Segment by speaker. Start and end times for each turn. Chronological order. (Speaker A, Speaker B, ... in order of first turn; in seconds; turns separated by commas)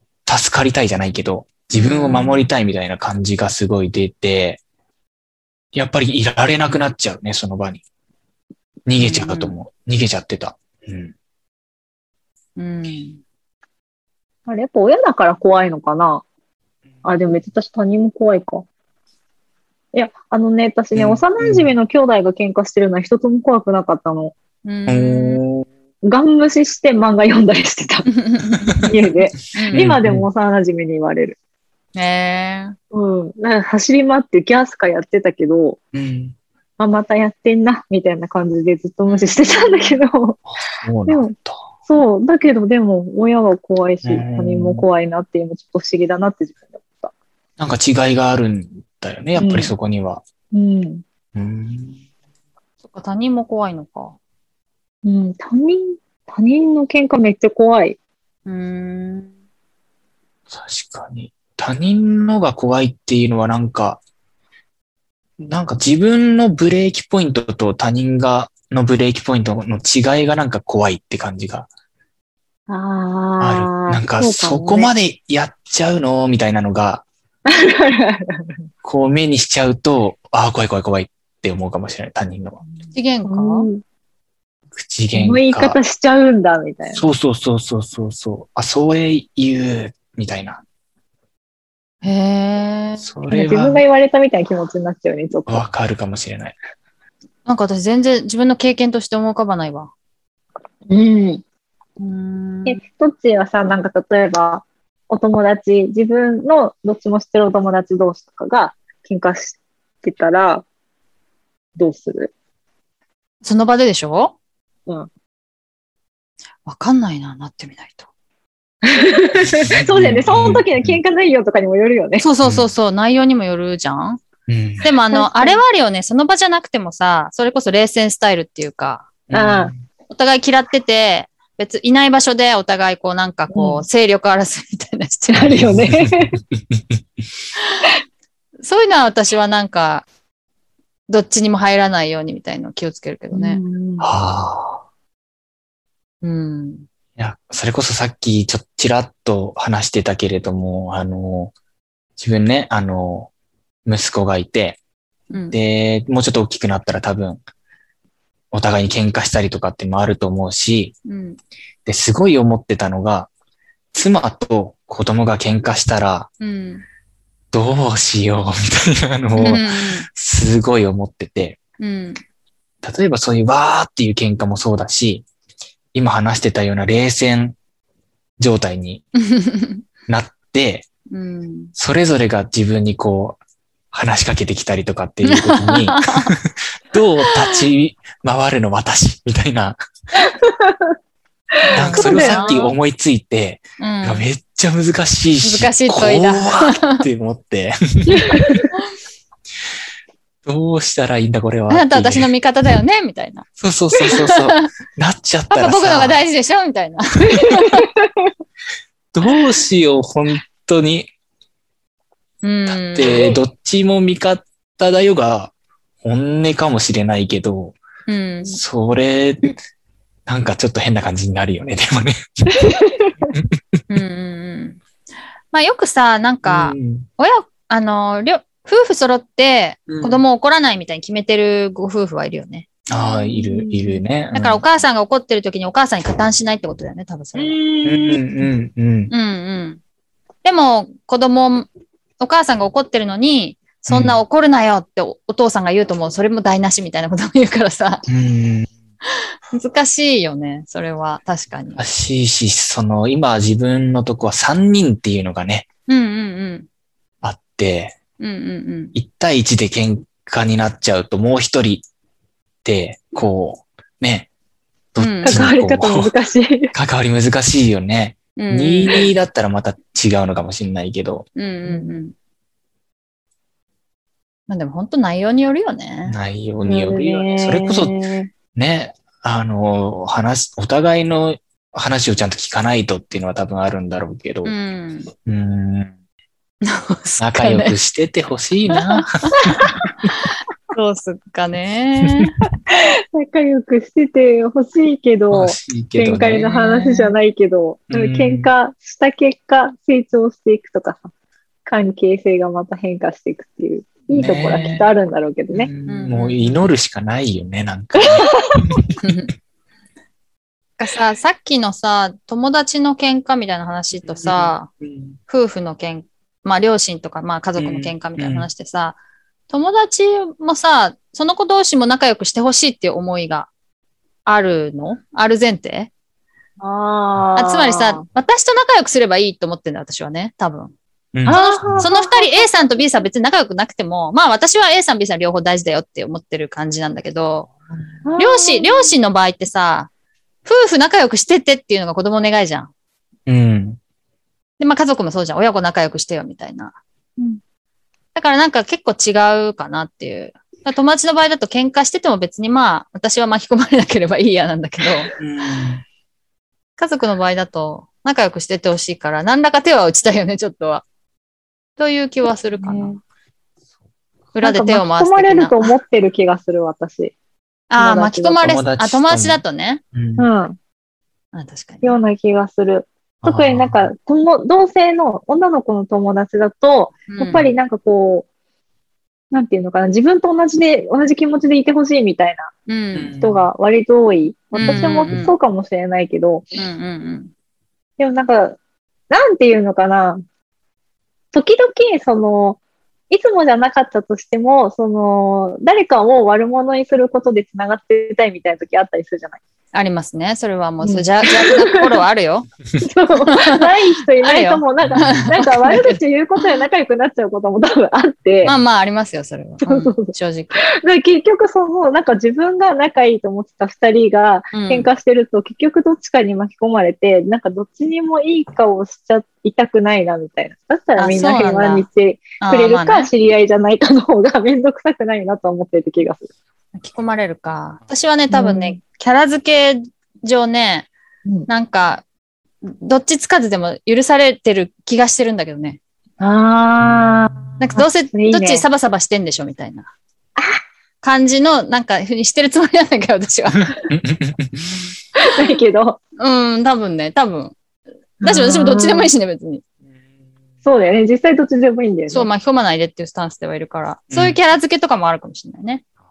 Speaker A: 0.2-4.6, Speaker B: 1.7-2.5, Speaker A: 5.7-7.8, Speaker A: 8.8-11.1, Speaker B: 9.0-9.6, Speaker B: 12.6-13.2, Speaker C: 14.4-16.2, Speaker C: 17.0-18.6, Speaker C: 19.9-24.3, Speaker A: 20.9-21.7, Speaker B: 24.6-25.4, Speaker A: 24.9-25.7, Speaker C: 26.0-28.1, Speaker B: 28.1-28.9, Speaker C: 28.9-31.4, Speaker B: 29.5-29.9, Speaker A: 29.6-30.3, Speaker B: 31.9-32.7, Speaker C: 32.9-35.8, Speaker A: 35.9-36.4, Speaker C: 36.8-40.5, Speaker B: 39.1-40.0, Speaker A: 40.7-41.7, Speaker C: 41.0-41.3, Speaker C: 41.9-47.1, Speaker A: 44.0-44.9, Speaker A: 47.6-50.2, Speaker C: 49.4-49.8, Speaker C: 50.5-51.0, Speaker A: 51.3-52.0, Speaker B: 52.8-54.2, Speaker C: 55.0-58.0, Speaker B: 58.5-59.3, Speaker A: 60.5-64.0, Speaker A: 65.5-71.7, Speaker C: 72.7-74.9, Speaker A: 73.4-77.0, Speaker C: 77.5-78.6, Speaker A: 78.8-82.6, Speaker B: 82.9-83.7, Speaker C: 83.2-83.8, Speaker A: 84.7-85.8, Speaker C: 85.1-87.0, Speaker A: 86.9-90.6, Speaker B: 92.0-93.1, Speaker A: 93.0-93.8, Speaker C: 93.3-95.6, Speaker A: 95.5-96.6, Speaker B: 97.4-99.9, Speaker C: 100.9-101.4, Speaker B: 102.0-102.8, Speaker C: 102.6-110.6, Speaker C: 111.8-112.3, Speaker B: 113.4-114.3, Speaker B: 116.6-118.1, Speaker C: 118.8-122.3, Speaker A: 119.6-121.0, Speaker B: 122.2-124.2, Speaker A: 122.4-122.7, Speaker A: 124.5-124.9, Speaker B: 124.8-129.1, Speaker C: 125.1-125.6, Speaker A: 129.3-129.8, Speaker C: 129.3-129.7, Speaker B: 130.1-135.5, Speaker C: 133.5-133.8, Speaker C: 135.3-136.4, Speaker A: 135.4-137.0, Speaker B: 138.6-140.1, Speaker B: 141.1-143.6, Speaker C: 143.3-144.1, Speaker A: 144.0-144.8, Speaker B: 146.2-146.8, Speaker A: 147.2-151.5, Speaker A: 152.2-153.3, Speaker A: 153.8-154.8, Speaker B: 155.3-155.6, Speaker A: 155.5-157.4, Speaker A: 158.5-160.9, Speaker B: 161.0-161.4, Speaker A: 161.8-163.3, Speaker A: 163.9-166.3, Speaker B: 166.4-166.8, Speaker A: 167.5-171.6, Speaker B: 169.3-170.1, Speaker B: 171.8-172.2, Speaker A: 172.8-175.2, Speaker A: 175.9-177.6, Speaker A: 178.4-179.0, Speaker B: 179.2-179.8, Speaker A: 180.1-180.9, Speaker B: 181.1-181.7, Speaker A: 181.8-183.4, Speaker A: 183.9-189.8, Speaker B: 185.2-186.3, Speaker B: 187.2-187.6, Speaker C: 190.3-190.9, Speaker C: 191.7-192.5, Speaker B: 191.7-192.7, Speaker A: 191.7-198.6, Speaker B: 193.8-194.3, Speaker B: 195.4-197.0, Speaker C: 198.1-198.7, Speaker A: 200.4-202.3, Speaker B: 201.7-203.4, Speaker A: 203.6-206.2, Speaker B: 204.1-204.7, Speaker B: 205.5-207.8, Speaker C: 207.3-208.3, Speaker A: 209.1-211.1, Speaker B: 212.4-213.1, Speaker A: 212.7-217.8, Speaker C: 213.0-213.4, Speaker B: 218.1-218.6, Speaker A: 218.4-219.6, Speaker A: 220.3-223.5, Speaker C: 222.6-223.3, Speaker B: 223.9-224.8, Speaker B: 225.5-232.8, Speaker A: 226.4-227.1, Speaker A: 229.9-230.2, Speaker A: 232.9-234.6, Speaker C: 233.2-234.0, Speaker B: 234.3-237.6, Speaker C: 237.3-238.4, Speaker A: 237.8-239.1, Speaker B: 239.1-239.8, Speaker B: 240.4-241.7, Speaker B: 242.2-248.0, Speaker A: 243.9-244.2, Speaker A: 248.1-248.7, Speaker B: 249.5-251.8, Speaker A: 251.8-255.7, Speaker B: 255.9-256.7, Speaker A: 257.2-258.0, Speaker B: 258.2-258.9, Speaker A: 258.9-261.9, Speaker A: 262.6-264.3, Speaker A: 264.9-266.1, Speaker B: 265.0-265.4, Speaker C: 265.2-266.7, Speaker A: 266.7-271.3, Speaker B: 268.4-269.1, Speaker B: 271.4-272.1, Speaker C: 271.6-271.9, Speaker B: 274.5-276.2, Speaker A: 276.1-278.0, Speaker C: 276.6-278.3, Speaker A: 278.5-284.5, Speaker B: 284.4-285.1, Speaker A: 285.2-285.9, Speaker B: 286.6-287.8, Speaker A: 287.2-290.1, Speaker B: 288.7-289.1, Speaker B: 290.7-292.3, Speaker C: 292.7-301.1, Speaker A: 295.3-297.1, Speaker A: 297.9-298.5, Speaker C: 301.6-305.7, Speaker A: 304.1-304.9, Speaker A: 305.5-308.8, Speaker B: 305.9-306.6, Speaker C: 308.0-308.7, Speaker B: 309.0-309.3, Speaker B: 310.8-314.7, Speaker A: 314.1-315.2, Speaker B: 315.3-319.0, Speaker A: 317.6-318.5, Speaker B: 319.5-323.5, Speaker B: 324.2-325.9, Speaker C: 326.6-328.0, Speaker B: 327.4-330.7, Speaker A: 331.1-331.9, Speaker C: 331.2-332.8, Speaker B: 331.2-337.5, Speaker C: 338.1-338.9, Speaker B: 338.2-339.9, Speaker B: 340.4-342.7, Speaker A: 343.3-343.8, Speaker B: 344.6-346.8, Speaker B: 348.1-355.1, Speaker A: 355.2-355.8, Speaker B: 356.8-360.8, Speaker B: 361.8-362.9, Speaker C: 362.6-363.0, Speaker B: 364.3-365.8, Speaker C: 364.4-367.1, Speaker B: 367.7-369.8, Speaker C: 367.8-368.6, Speaker A: 368.4-369.4, Speaker A: 369.9-370.3, Speaker C: 370.2-370.6, Speaker B: 371.3-371.9, Speaker C: 371.8-378.3, Speaker A: 373.2-373.9, Speaker B: 377.1-377.5, Speaker C: 379.3-382.5, Speaker B: 382.7-383.1, Speaker A: 382.9-383.5, Speaker C: 383.2-386.6, Speaker A: 384.5-385.3, Speaker B: 384.5-385.3, Speaker B: 386.5-387.3, Speaker C: 388.0-388.6, Speaker C: 389.1-390.2, Speaker C: 391.3-399.4, Speaker B: 399.7-402.5, Speaker C: 400.8-402.0, Speaker C: 402.8-408.5, Speaker B: 403.2-403.6, Speaker B: 404.2-406.0, Speaker A: 404.8-405.3, Speaker B: 408.4-410.6, Speaker C: 409.6-426.3, Speaker B: 414.5-414.9, Speaker B: 421.0-421.9, Speaker B: 422.4-423.1, Speaker B: 426.7-430.9, Speaker C: 428.3-428.8, Speaker B: 431.5-432.0, Speaker B: 432.6-435.8, Speaker C: 436.2-438.6, Speaker A: 436.8-437.7, Speaker B: 437.6-439.9, Speaker B: 441.0-443.7, Speaker A: 443.9-444.9, Speaker C: 445.2-446.0, Speaker B: 446.2-447.6, Speaker C: 448.2-449.1, Speaker B: 448.2-449.6, Speaker C: 450.6-452.3, Speaker B: 452.1-455.8, Speaker A: 454.1-454.4